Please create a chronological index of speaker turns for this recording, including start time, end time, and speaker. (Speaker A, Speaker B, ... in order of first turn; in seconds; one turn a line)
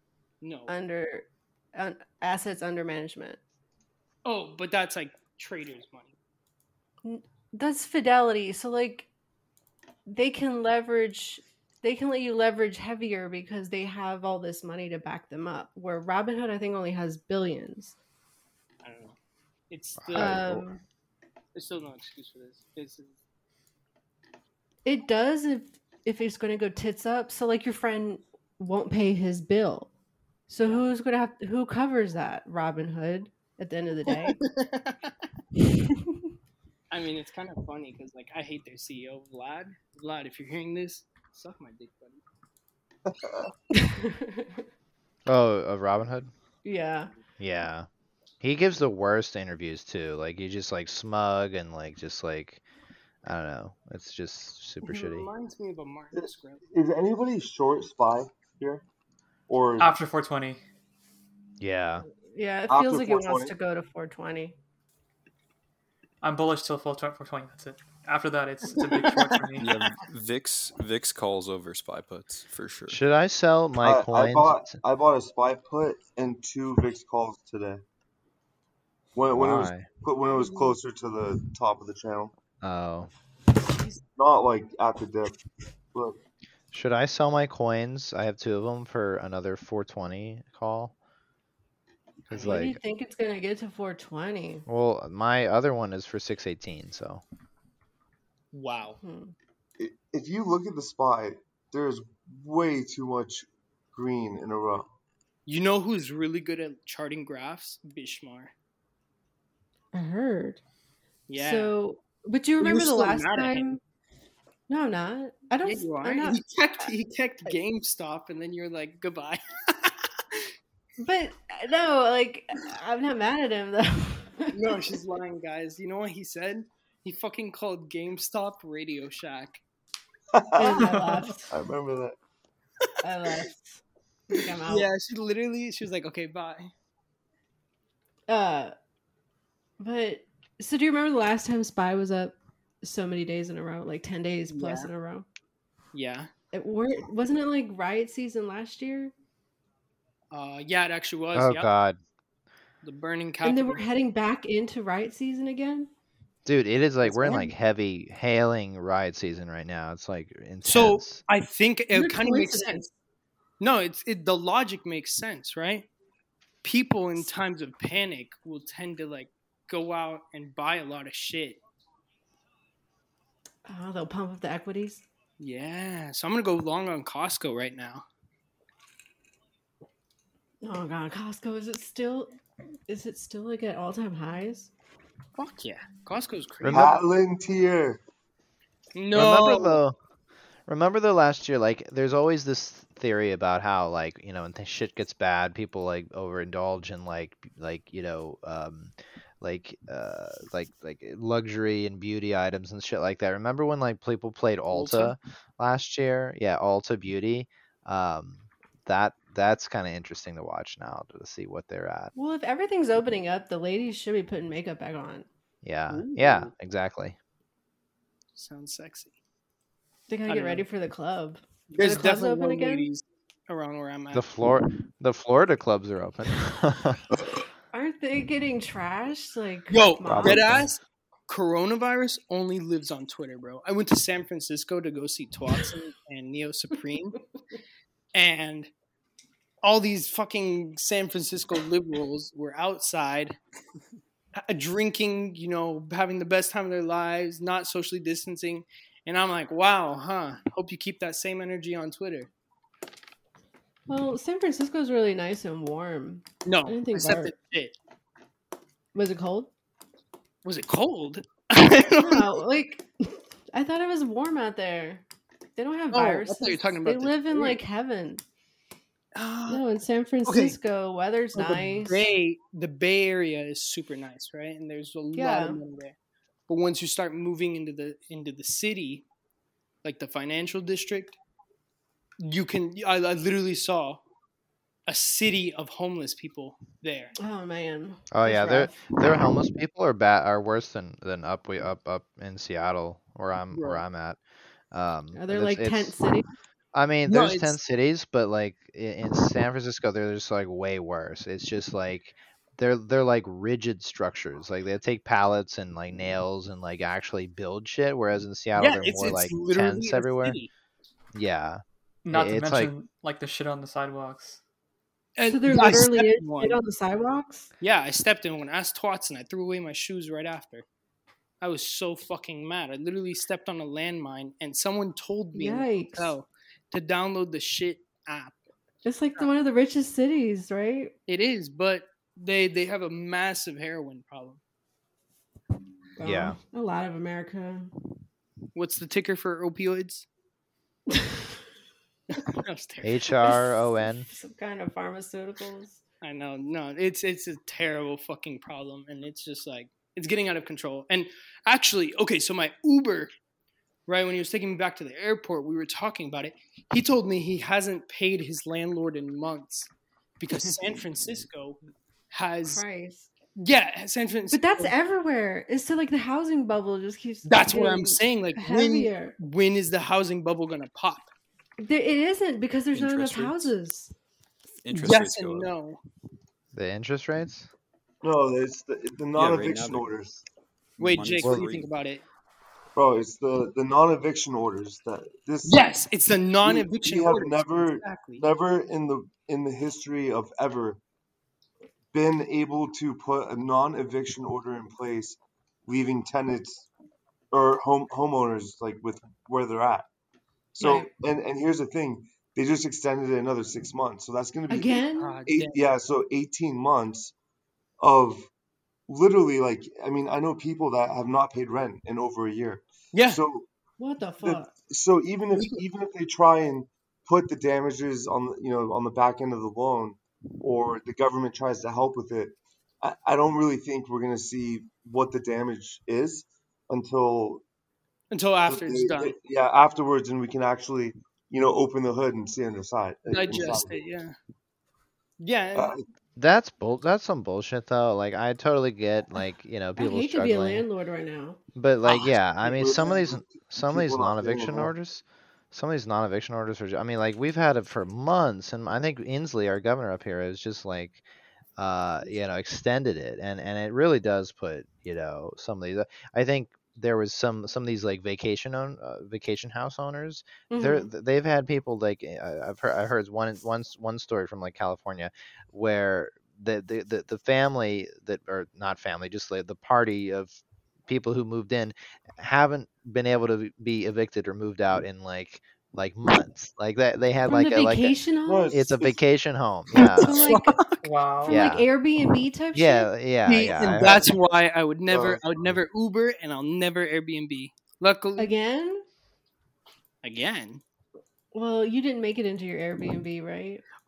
Speaker A: 0.4-0.7
Speaker B: 0.7-3.4
Speaker A: 4.2-6.1
Speaker B: 7.0-9.1
Speaker B: 10.1-17.9
Speaker A: 18.8-19.1
Speaker A: 19.7-20.6
Speaker C: 20.0-20.6
Speaker B: 20.1-20.8
Speaker A: 21.5-23.2
Speaker B: 24.8-29.9
Speaker B: 30.5-34.4
Speaker A: 34.1-35.1
Speaker A: 36.9-42.2
Speaker B: 43.7-44.6
Speaker C: 45.2-46.3
Speaker B: 46.6-47.1
Speaker C: 47.4-47.9
Speaker C: 48.4-52.6
Speaker C: 53.2-55.3
Speaker A: 54.8-56.6
Speaker D: 56.1-58.8
Speaker D: 59.5-59.9
Speaker E: 59.8-60.6
Speaker C: 61.6-62.0
Speaker B: 62.3-64.5
Speaker D: 62.7-63.5
Speaker E: 66.2-69.7
Speaker A: 68.8-69.4
Speaker F: 69.6-73.0
Speaker C: 72.9-74.8
Speaker D: 73.8-77.8
Speaker D: 79.1-82.3
Speaker C: 79.3-79.9
Speaker C: 82.6-83.1
Speaker D: 84.2-85.3
Speaker C: 86.7-90.9
Speaker C: 92.3-92.8
Speaker B: 92.3-94.6
Speaker C: 94.7-97.2
Speaker A: 98.5-99.0
Speaker B: 99.0-99.3
Speaker D: 99.8-104.9
Speaker A: 105.5-108.5
Speaker B: 109.9-110.6
Speaker A: 111.3-111.7
Speaker B: 111.3-113.8
Speaker A: 112.6-113.7
Speaker B: 114.7-116.4
Speaker A: 115.6-120.4
Speaker B: 121.0-124.7
Speaker A: 124.5-129.6
Speaker D: 130.3-132.2
Speaker B: 130.6-131.5
Speaker E: 130.8-131.1
Speaker B: 133.0-134.9
Speaker A: 134.7-136.7
Speaker B: 138.3-138.7
Speaker B: 139.8-145.2
Speaker A: 144.5-144.9
Speaker A: 145.9-146.3
Speaker B: 146.5-149.1
Speaker A: 150.3-151.7
Speaker C: 151.3-152.0
Speaker A: 152.8-153.8
Speaker B: 153.4-155.9
Speaker C: 156.4-161.2
Speaker B: 157.0-157.5
Speaker A: 160.6-162.9
Speaker B: 161.9-162.9
Speaker A: 163.6-165.9
Speaker A: 166.6-171.6
Speaker B: 173.7-175.0
Speaker A: 175.4-178.0
Speaker B: 180.6-182.3
Speaker B: 182.9-184.7
Speaker A: 185.4-186.9
Speaker C: 186.6-186.9
Speaker D: 186.7-188.0
Speaker A: 188.9-189.8
Speaker C: 189.1-189.9
Speaker C: 190.7-212.1
Speaker A: 204.7-205.1
Speaker B: 212.1-215.2
Speaker C: 215.6-217.2
Speaker A: 215.9-216.5
Speaker A: 218.3-219.2
Speaker B: 220.1-222.9
Speaker A: 220.3-220.7
Speaker A: 221.7-224.3
Speaker C: 224.1-227.0
Speaker B: 227.7-230.5
Speaker A: 229.7-237.2
Speaker C: 230.0-230.7
Speaker A: 238.1-238.7
Speaker A: 239.6-243.4
Speaker A: 244.4-252.3
Speaker B: 253.9-257.3
Speaker A: 256.4-257.7
Speaker B: 258.9-259.5
Speaker A: 260.4-262.4
Speaker B: 262.0-265.0
Speaker B: 265.6-268.2
Speaker A: 265.9-267.6
Speaker A: 269.1-269.6
Speaker B: 269.5-272.1
Speaker A: 270.2-270.6
Speaker A: 271.3-275.9
Speaker B: 275.1-275.6
Speaker A: 276.5-279.0
Speaker A: 279.8-281.2
Speaker A: 282.2-284.0
Speaker A: 284.9-287.1
Speaker B: 287.2-289.0
Speaker C: 288.1-294.2
Speaker A: 293.5-293.8
Speaker C: 294.7-295.9
Speaker B: 295.1-296.3
Speaker C: 296.7-310.4
Speaker A: 297.1-297.6
Speaker A: 308.6-310.5
Speaker C: 311.1-312.7
Speaker E: 312.0-314.4
Speaker A: 315.2-316.6
Speaker B: 315.3-317.5
Speaker A: 317.6-320.6
Speaker A: 321.4-328.4
Speaker B: 325.3-326.1
Speaker B: 328.8-330.9
Speaker A: 331.1-334.4
Speaker B: 335.9-337.7
Speaker C: 336.0-336.4
Speaker A: 338.5-340.1
Speaker B: 340.9-341.2
Speaker A: 342.1-343.0
Speaker C: 342.8-344.1
Speaker B: 344.1-345.8
Speaker A: 346.0-353.1
Speaker A: 353.9-361.6
Speaker A: 362.1-362.6
Speaker B: 362.4-363.1
Speaker A: 363.4-364.7
Speaker B: 364.3-369.1
Speaker A: 367.2-371.1
Speaker B: 371.6-373.9
Speaker F: 372.7-373.5
Speaker F: 374.6-375.5
Speaker A: 374.7-375.8
Speaker C: 376.5-377.5
Speaker D: 378.0-380.2
Speaker F: 379.1-379.9
Speaker F: 380.8-381.7
Speaker A: 380.8-382.0
Speaker D: 382.7-385.6
Speaker A: 385.4-388.2
Speaker D: 386.4-390.8
Speaker D: 391.9-396.7
Speaker D: 397.3-399.9
Speaker D: 400.6-407.1
Speaker B: 400.6-400.9
Speaker B: 404.5-405.1
Speaker A: 405.0-405.6
Speaker D: 407.8-408.3
Speaker D: 408.9-413.5
Speaker A: 412.9-413.2
Speaker B: 413.8-414.5
Speaker D: 414.2-427.4
Speaker A: 415.3-415.6
Speaker A: 428.1-429.1
Speaker D: 428.4-433.8
Speaker A: 433.1-434.1
Speaker A: 435.2-435.7
Speaker D: 435.5-435.8
Speaker C: 436.1-440.6
Speaker B: 439.8-441.4
Speaker C: 441.5-451.0
Speaker A: 441.9-442.1
Speaker D: 442.4-444.7
Speaker C: 451.6-478.0
Speaker B: 460.5-460.9
Speaker B: 477.2-478.5
Speaker D: 478.2-479.0
Speaker C: 478.5-480.2
Speaker A: 479.8-480.9
Speaker B: 479.9-480.6
Speaker E: 480.8-481.4
Speaker B: 481.2-482.9
Speaker C: 481.3-481.7
Speaker C: 482.5-484.1
Speaker A: 483.2-488.3
Speaker D: 484.9-485.2
Speaker B: 488.2-488.8
Speaker A: 490.0-490.6
Speaker B: 491.3-493.6